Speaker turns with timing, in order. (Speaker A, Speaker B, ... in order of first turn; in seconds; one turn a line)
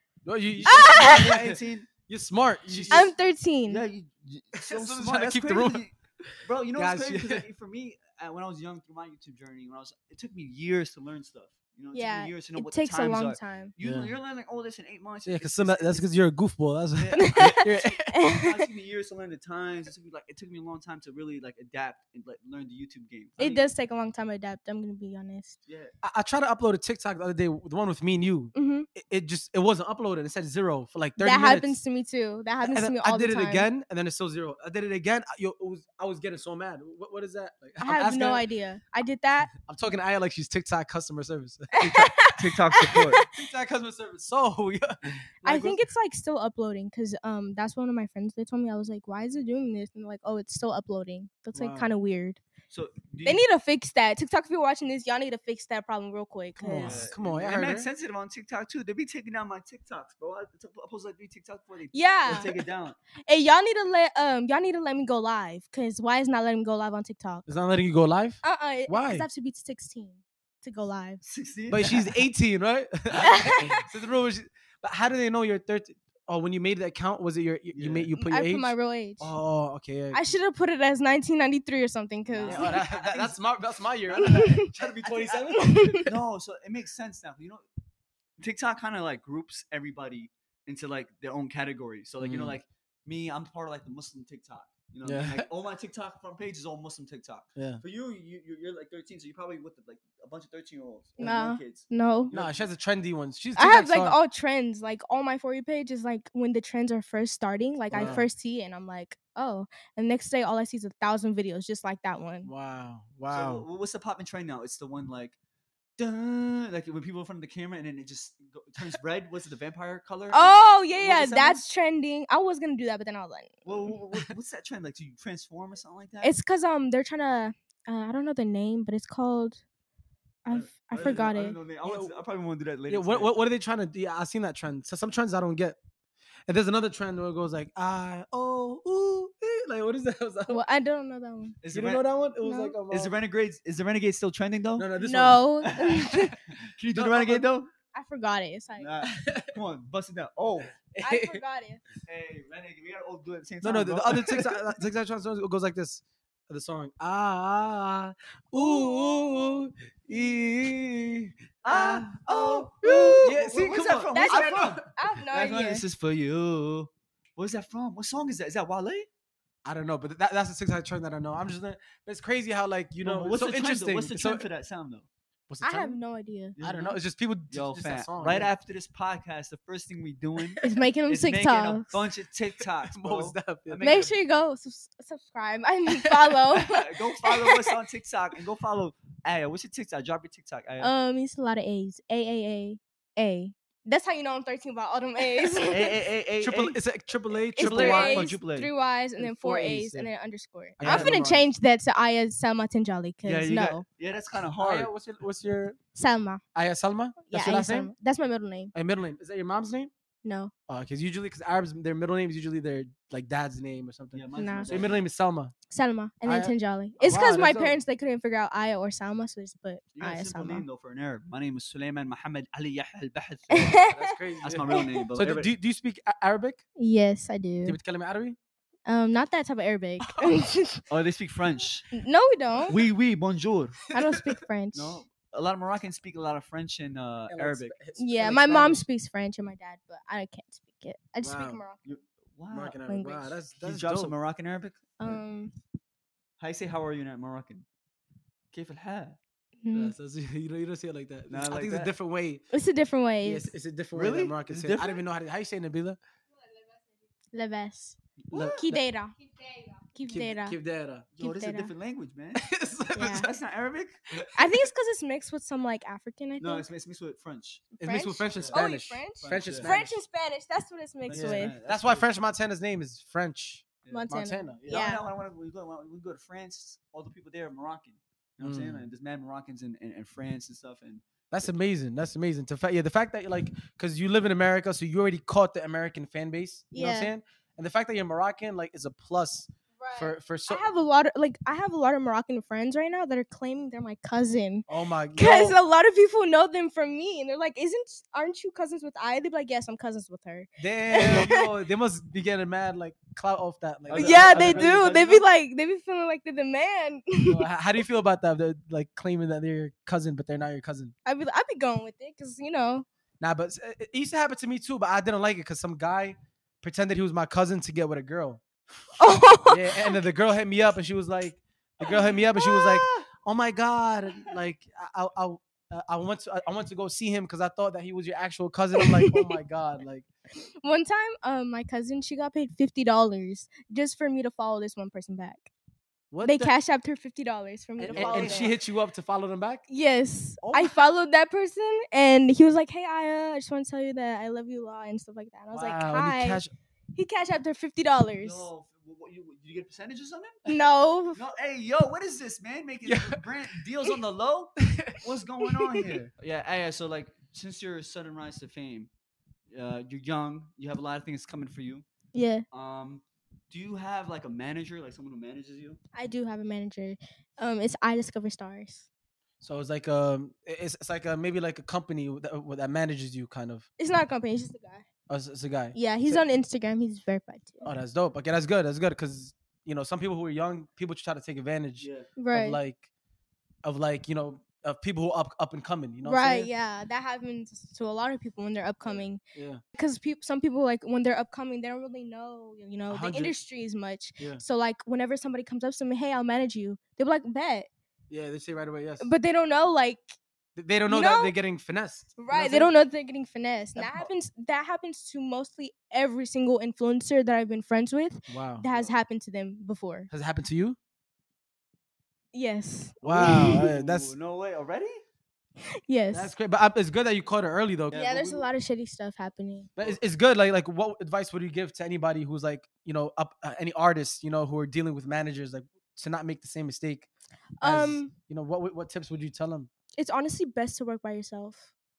Speaker A: 0.2-3.1
Speaker B: 0.6-1.9
Speaker C: 0.7-1.3
Speaker B: 2.7-3.1
Speaker C: 2.9-3.8
Speaker B: 3.7-16.1
Speaker A: 4.6-5.8
Speaker A: 6.8-7.4
Speaker C: 11.9-13.7
Speaker A: 13.8-14.1
Speaker A: 15.2-18.1
Speaker B: 17.0-17.6
Speaker C: 17.2-18.6
Speaker B: 18.3-23.7
Speaker C: 23.4-25.6
Speaker B: 25.7-25.9
Speaker A: 26.0-31.8
Speaker C: 28.5-28.9
Speaker C: 31.2-33.7
Speaker A: 32.6-38.5
Speaker C: 37.8-39.5
Speaker A: 39.5-42.2
Speaker C: 41.7-43.3
Speaker B: 42.4-43.2
Speaker A: 43.2-45.8
Speaker C: 45.4-52.4
Speaker A: 51.5-51.9
Speaker B: 52.7-53.4
Speaker C: 53.2-57.0
Speaker A: 56.6-57.9
Speaker B: 56.7-63.0
Speaker C: 61.9-62.5
Speaker C: 63.3-67.5
Speaker A: 67.5-69.3
Speaker C: 68.4-71.2
Speaker B: 71.2-72.2
Speaker A: 71.7-80.3
Speaker C: 73.2-73.8
Speaker B: 77.7-78.1
Speaker C: 78.2-79.3
Speaker C: 80.1-82.8
Speaker A: 82.4-86.1
Speaker B: 82.4-83.4
Speaker B: 84.1-87.6
Speaker C: 84.2-84.7
Speaker C: 85.5-86.1
Speaker B: 88.4-102.7
Speaker A: 92.2-92.6
Speaker A: 95.0-95.5
Speaker A: 97.6-97.8
Speaker C: 101.2-102.3
Speaker A: 102.3-104.2
Speaker C: 103.6-112.5
Speaker A: 107.9-108.3
Speaker B: 107.9-108.2
Speaker A: 112.5-113.7
Speaker B: 113.3-115.4
Speaker B: 116.0-121.6
Speaker C: 120.3-123.6
Speaker B: 123.7-126.3
Speaker C: 126.2-129.6
Speaker C: 130.4-131.6
Speaker B: 130.5-133.4
Speaker A: 131.8-132.1
Speaker A: 132.9-135.8
Speaker A: 136.5-140.6
Speaker C: 140.5-141.6
Speaker B: 141.6-142.1
Speaker A: 141.7-143.1
Speaker C: 142.4-142.8
Speaker B: 142.9-144.9
Speaker A: 144.8-145.5
Speaker C: 145.0-146.3
Speaker B: 145.6-147.7
Speaker A: 146.9-147.5
Speaker C: 147.9-148.9
Speaker B: 148.8-150.7
Speaker A: 149.0-149.5
Speaker A: 150.8-151.4
Speaker C: 151.0-151.8
Speaker B: 152.1-154.6
Speaker A: 153.6-164.8
Speaker C: 158.6-160.4
Speaker B: 161.6-169.1
Speaker C: 162.5-163.3
Speaker C: 164.1-165.8
Speaker A: 169.7-174.5
Speaker B: 173.0-175.1
Speaker A: 175.5-176.0
Speaker C: 175.6-176.6
Speaker B: 176.6-177.0
Speaker A: 176.6-178.5
Speaker B: 177.5-184.2
Speaker C: 180.6-182.0
Speaker A: 182.8-183.9
Speaker C: 183.8-187.7
Speaker A: 185.9-186.4
Speaker B: 186.6-190.9
Speaker C: 190.8-196.0
Speaker B: 195.7-196.8
Speaker A: 196.4-198.4
Speaker C: 197.6-203.8
Speaker B: 197.6-198.7
Speaker A: 199.2-200.1
Speaker A: 200.8-201.5
Speaker B: 200.8-201.2
Speaker B: 203.2-204.9
Speaker A: 204.6-205.8
Speaker C: 205.9-206.4
Speaker A: 206.6-207.9
Speaker C: 207.2-208.7
Speaker A: 208.7-209.9
Speaker C: 210.2-210.5
Speaker A: 210.7-215.5
Speaker B: 214.1-215.0
Speaker C: 214.4-214.8
Speaker C: 215.7-220.7
Speaker A: 216.2-217.8
Speaker B: 219.9-225.5
Speaker C: 223.5-224.2
Speaker A: 223.7-226.6
Speaker C: 226.8-227.8
Speaker A: 227.6-228.4
Speaker C: 228.9-230.8
Speaker A: 230.0-230.4
Speaker B: 230.9-231.9
Speaker C: 231.9-232.8
Speaker B: 232.7-233.8
Speaker C: 233.9-235.0
Speaker A: 233.9-234.4
Speaker B: 234.7-237.8
Speaker A: 237.3-238.8
Speaker C: 238.0-241.8
Speaker A: 241.2-241.6
Speaker B: 241.8-242.8
Speaker A: 242.5-244.1
Speaker C: 242.9-243.3
Speaker B: 243.6-245.2
Speaker C: 245.0-245.5
Speaker B: 246.4-247.7
Speaker B: 248.5-249.2
Speaker C: 249.6-249.9
Speaker A: 249.7-252.4
Speaker B: 251.3-251.9
Speaker C: 252.5-253.5
Speaker A: 253.2-256.0
Speaker B: 253.9-255.1
Speaker C: 257.3-258.0
Speaker B: 258.2-258.7
Speaker A: 258.3-258.8
Speaker C: 258.6-259.1
Speaker C: 259.9-260.6
Speaker A: 260.1-261.1
Speaker B: 261.2-264.2
Speaker C: 261.2-261.7
Speaker A: 262.4-263.3
Speaker C: 262.9-263.3
Speaker C: 264.4-266.7
Speaker B: 266.4-267.7
Speaker C: 267.8-271.6
Speaker A: 267.8-270.0
Speaker B: 268.4-268.6
Speaker B: 269.2-269.8
Speaker B: 271.1-272.1
Speaker A: 271.1-274.9
Speaker C: 273.9-275.0
Speaker B: 274.6-281.5
Speaker A: 278.4-278.9
Speaker A: 281.3-290.7
Speaker C: 286.7-287.1
Speaker C: 289.8-301.4
Speaker A: 294.7-295.6
Speaker A: 300.6-304.9
Speaker B: 303.9-305.2
Speaker C: 303.9-307.4
Speaker A: 307.2-310.9
Speaker C: 311.1-312.9
Speaker A: 313.2-318.4
Speaker C: 319.0-319.9
Speaker A: 319.5-330.1
Speaker B: 322.6-323.0
Speaker C: 328.8-329.3
Speaker C: 330.6-335.5
Speaker A: 336.1-336.5
Speaker C: 336.2-338.5
Speaker A: 337.8-339.6
Speaker B: 337.8-338.6
Speaker C: 339.7-346.4
Speaker A: 340.4-340.8
Speaker A: 345.5-346.5
Speaker C: 346.9-348.5
Speaker B: 348.2-350.5
Speaker C: 350.5-351.2
Speaker B: 351.1-358.9
Speaker A: 352.9-353.2
Speaker A: 354.7-355.0
Speaker B: 359.5-361.9
Speaker C: 362.1-362.4
Speaker B: 362.5-365.8
Speaker C: 365.9-368.9
Speaker A: 369.4-373.7
Speaker C: 373.8-374.9
Speaker A: 375.1-376.2
Speaker C: 375.8-377.7
Speaker A: 377.6-382.9
Speaker B: 381.8-382.1
Speaker C: 382.2-382.6
Speaker A: 383.6-386.5
Speaker C: 386.0-389.2
Speaker A: 389.3-389.6
Speaker C: 389.7-397.7
Speaker A: 392.9-393.3
Speaker A: 398.1-399.1
Speaker C: 399.0-400.2
Speaker A: 400.6-402.7
Speaker C: 400.9-401.4
Speaker C: 402.2-410.1
Speaker B: 403.8-404.1
Speaker A: 408.3-408.6
Speaker A: 410.1-410.8
Speaker C: 412.3-413.6
Speaker A: 413.0-414.1
Speaker B: 413.0-415.0
Speaker C: 415.9-416.3
Speaker A: 416.1-418.0
Speaker B: 417.9-418.5
Speaker C: 417.9-419.7
Speaker A: 419.8-427.1
Speaker C: 427.6-428.1
Speaker A: 427.6-429.7
Speaker C: 430.0-431.7